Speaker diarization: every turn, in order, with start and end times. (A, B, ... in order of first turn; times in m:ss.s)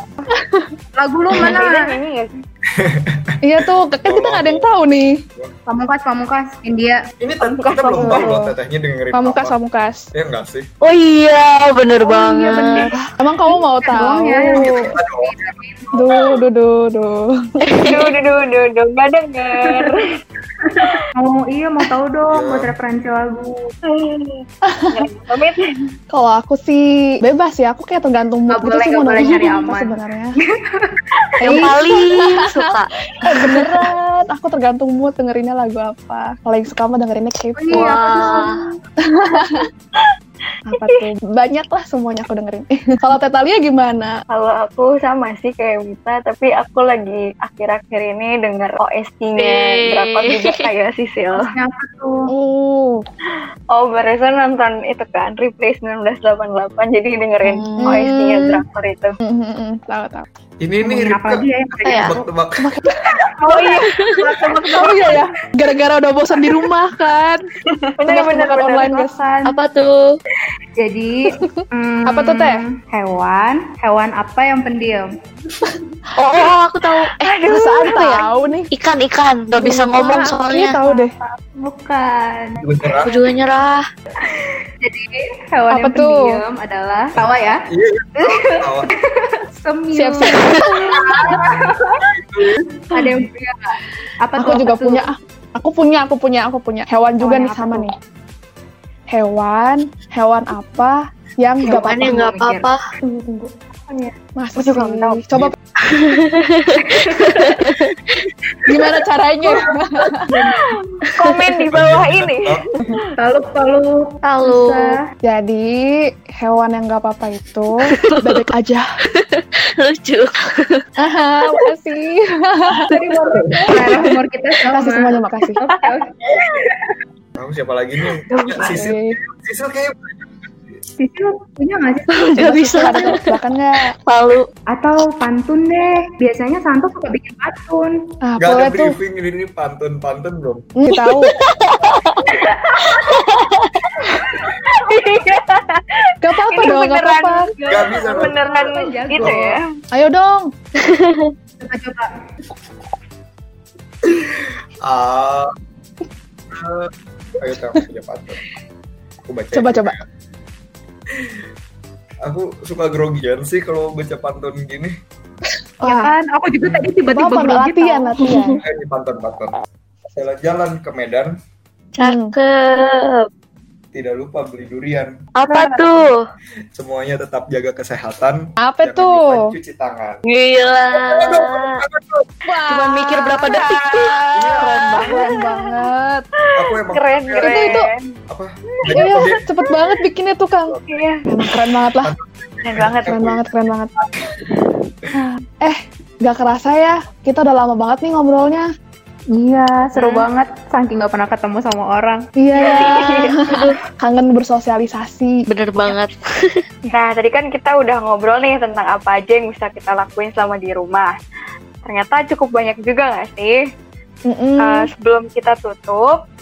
0:00.3-0:00.8 A
0:01.0-0:02.0 B
0:01.4-0:02.4 C
0:02.7-0:04.7 D
0:03.4-0:05.2 A
0:05.7-0:07.0 B
0:07.2-0:09.6 D
0:07.6-0:08.3 C
0:08.0-0:08.6 A
0:09.1-0:10.1 A
0:10.1-0:10.7 D
0:10.8-0:12.9 E
0:12.0-0:16.1 B
0:12.9-0:14.9 A
0:14.5-0:15.3 D
0:15.9-0:17.5 A
0:17.6-0:18.0 E
0:17.8-0:20.1 C
0:19.7-0:20.0 B
0:20.6-0:23.7 B
0:22.3-0:22.8 D
0:23.8-0:25.8 C
0:24.7-0:25.1 A
0:26.1-0:30.4 A
0:28.5-0:30.0 B
0:30.6-0:31.7 B
0:31.4-0:32.7 A
0:31.4-0:32.9 E
0:33.2-0:38.3 A
0:37.6-0:38.7 B
0:37.7-0:38.6 E
0:39.0-0:39.7 A
0:40.7-0:44.2 A
0:40.8-0:41.0 C
0:44.3-0:51.5 C
0:49.4-0:50.7 E
0:51.4-0:52.3 B
0:52.3-0:53.0 A
0:53.7-0:59.2 C
0:57.4-0:58.1 E
0:57.8-0:58.6 A
0:59.2-1:00.3 A
1:00.6-1:02.7 D
1:00.8-1:02.3 B
1:01.8-1:02.1 E
1:02.6-1:03.0 A
1:03.4-1:05.2 C
1:03.8-1:04.2 E
1:04.7-1:07.4 A
1:07.8-1:09.0 C
1:08.1-1:09.2 A
1:08.7-1:09.6 B
1:09.4-1:10.2 E
1:10.8-1:15.2 B
1:11.3-1:12.6 A
1:16.2-1:17.1 E
1:17.2-1:18.3 C
1:17.2-1:18.7 A
1:18.7-1:20.8 E
1:19.6-1:21.2 A
1:20.8-1:22.8 B
1:22.6-1:23.3 D
1:23.0-1:23.8 E
1:24.3-1:27.7 B
1:25.7-1:26.4 A
1:27.2-1:28.9 D
1:28.2-1:32.0 B
1:29.9-1:31.5 A
1:31.2-1:32.7 D
1:32.9-1:35.1 B
1:34.4-1:37.9 A
1:37.2-1:37.9 B
1:39.1-1:42.2 A
1:41.6-1:42.8 E
1:41.6-1:44.1 B
1:44.4-1:45.6 A
1:44.6-1:45.2 C
1:45.8-1:48.0 E
1:47.0-1:47.5 B
1:48.7-1:50.3 A
1:49.5-1:50.1 D
1:50.3-1:50.7 B
1:50.6-1:52.7 C
1:51.7-1:53.0 D
1:53.2-1:55.0 B
1:54.2-1:55.0 E
1:55.2-1:58.9 A
1:57.8-1:58.5 E
1:59.1-2:00.8 E
2:01.0-2:03.8 A
2:02.9-2:06.9 B
2:03.3-2:03.7 D
2:04.7-2:05.6 A
2:07.4-2:10.8 D
2:08.3-2:08.7 C
2:08.6-2:09.2 A
2:11.0-2:12.3 B
2:12.2-2:13.4 E
2:12.4-2:13.9 A
2:14.1-2:14.5 E
2:14.7-2:18.2 B
2:18.2-2:19.0 A
2:18.4-2:20.7 D
2:20.8-2:21.4 A
2:20.9-2:22.2 E
2:22.2-2:23.2 B
2:23.2-2:23.7 E
2:24.1-2:24.4 B
2:24.5-2:29.6 C
2:26.2-2:27.5 A
2:27.6-2:29.6 B
2:27.7-2:28.4 D
2:29.9-2:30.5 A
2:30.8-2:31.3 E
2:31.6-2:32.2 B
2:34.0-2:35.5 D
2:36.5-2:38.4 D
2:39.3-2:40.0 D
2:39.5-2:40.0 A
2:41.1-2:41.5 D
2:42.2-2:45.0 D
2:45.8-2:46.1 A
2:45.8-2:48.2 B
2:46.6-2:47.0 D
2:47.1-2:48.6 A
2:48.2-2:48.6 E
2:48.6-2:51.4 D
2:52.0-2:53.3 E
2:52.0-2:52.3 A
2:53.9-2:55.2 D
2:55.4-2:56.2 E
2:55.5-2:55.9 A
2:56.8-3:00.2 D
2:58.6-2:59.5 A
3:00.3-3:01.8 E
3:00.9-3:02.3 D
3:02.5-3:06.3 A
3:02.7-3:05.4 E
3:04.3-3:04.7 D
3:06.4-3:08.1 C
3:06.6-3:07.8 D
3:07.4-3:07.9 A
3:08.3-3:09.4 D
3:08.8-3:09.7 C
3:09.0-3:12.1 A
3:10.9-3:11.3 C
3:12.0-3:13.4 D
3:12.6-3:13.2 C
3:13.0-3:13.9 A
3:15.2-3:18.7 A
3:19.3-3:22.3 B
3:22.4-3:25.5 A
3:22.6-3:23.6 C
3:25.5-3:26.6 E
3:26.9-3:31.2 C
3:31.8-3:33.6 C
3:34.3-3:34.9 A
3:34.6-3:36.2 C